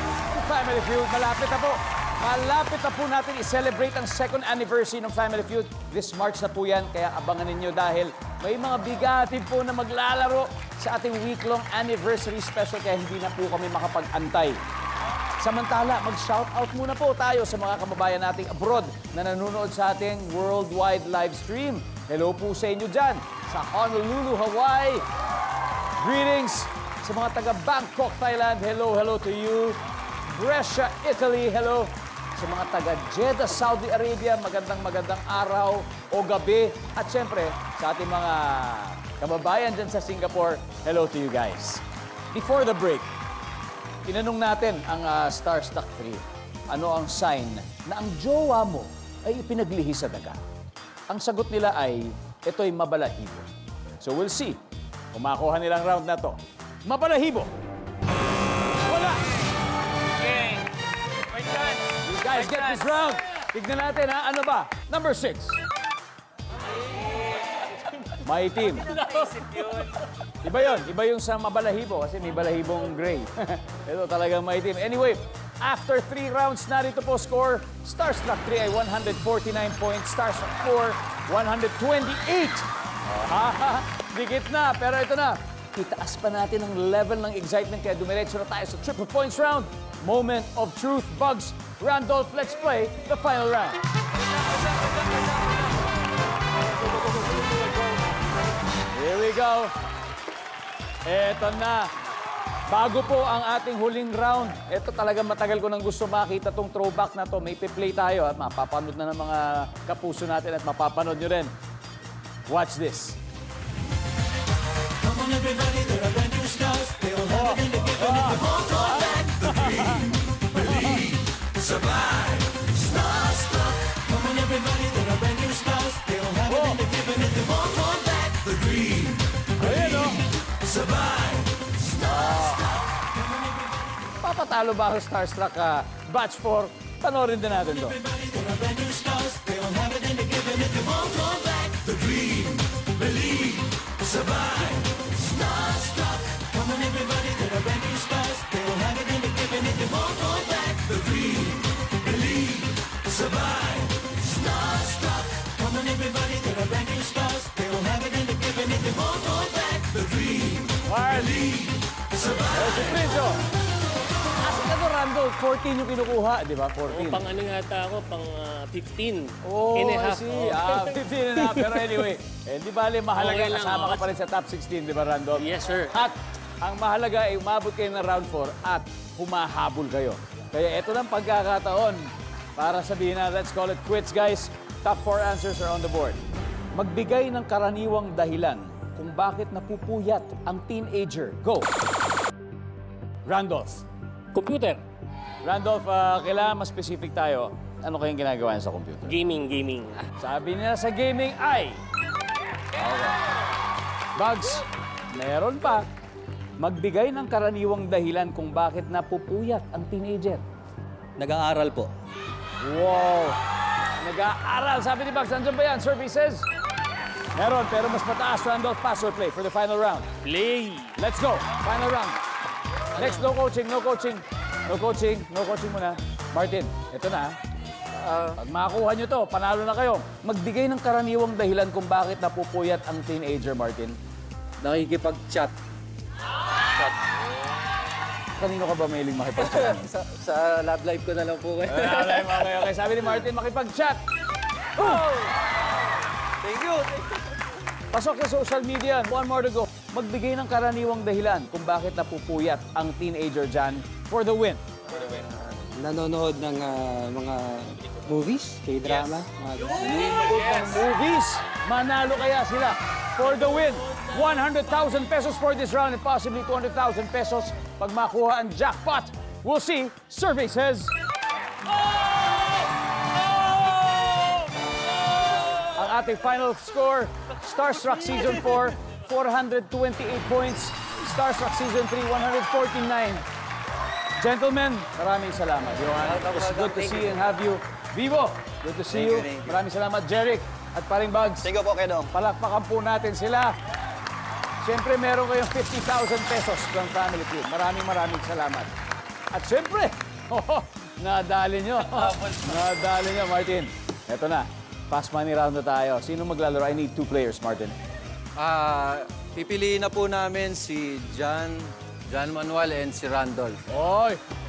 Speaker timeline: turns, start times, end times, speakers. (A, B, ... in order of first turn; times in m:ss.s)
0:00.3-0:14.6 A
0:15.4-0:25.0 A
0:26.0-0:29.8 A
0:30.3-0:41.8 A
0:42.3-0:43.1 A
0:44.1-0:50.4 A
0:51.1-0:53.5 A
0:54.0-0:54.6 A
0:55.1-0:57.5 A
0:58.9-0:59.2 A
1:02.0-1:05.6 A
1:08.2-1:08.9 A
1:08.9-1:09.8 B
1:10.4-1:33.8 A
1:39.0-1:39.7 A
1:41.1-1:41.9 A
1:42.7-1:51.5 A
1:52.5-1:53.2 A
1:57.2-2:01.1 A
2:06.4-2:06.9 A
2:09.6-2:10.2 A
2:12.0-2:12.6 A
2:14.2-2:18.0 A
2:40.8-2:41.7 A
2:42.4-2:43.4 A
2:44.4-2:47.2 A
2:46.9-2:51.9 B
2:49.4-3:06.2 A
2:53.2-2:54.1 B
2:55.4-2:55.9 B
3:06.8-3:11.7 A
3:13.3-3:13.8 A
3:14.4-3:14.8 B
3:15.4-3:19.1 A
3:19.1-3:20.0 B
3:20.2-3:21.8 A
3:22.8-3:23.2 A
3:24.2-3:25.9 A
3:26.6-3:30.4 A
3:31.2-3:31.9 C
3:32.6-3:33.4 A
3:34.0-3:36.5 A
3:37.4-3:40.1 A
3:40.2-3:40.9 B
3:41.0-3:42.2 A
3:43.0-3:47.4 A
3:48.0-3:48.4 D
3:48.4-3:54.0 A
3:58.4-3:59.8 A
3:59.7-4:02.2 D
4:01.7-4:04.0 A
4:06.4-4:07.0 D
4:07.9-4:14.6 A
4:15.1-4:20.1 E
4:19.8-4:30.9 A
4:35.7-4:43.2 A
4:44.2-4:51.5 A
4:46.0-4:47.1 D
4:49.0-4:49.4 C
4:51.4-4:52.1 C
4:52.1-4:53.5 A
4:54.6-4:58.7 A
4:59.3-5:07.8 A
5:08.4-5:13.6 D
5:13.7-5:14.2 A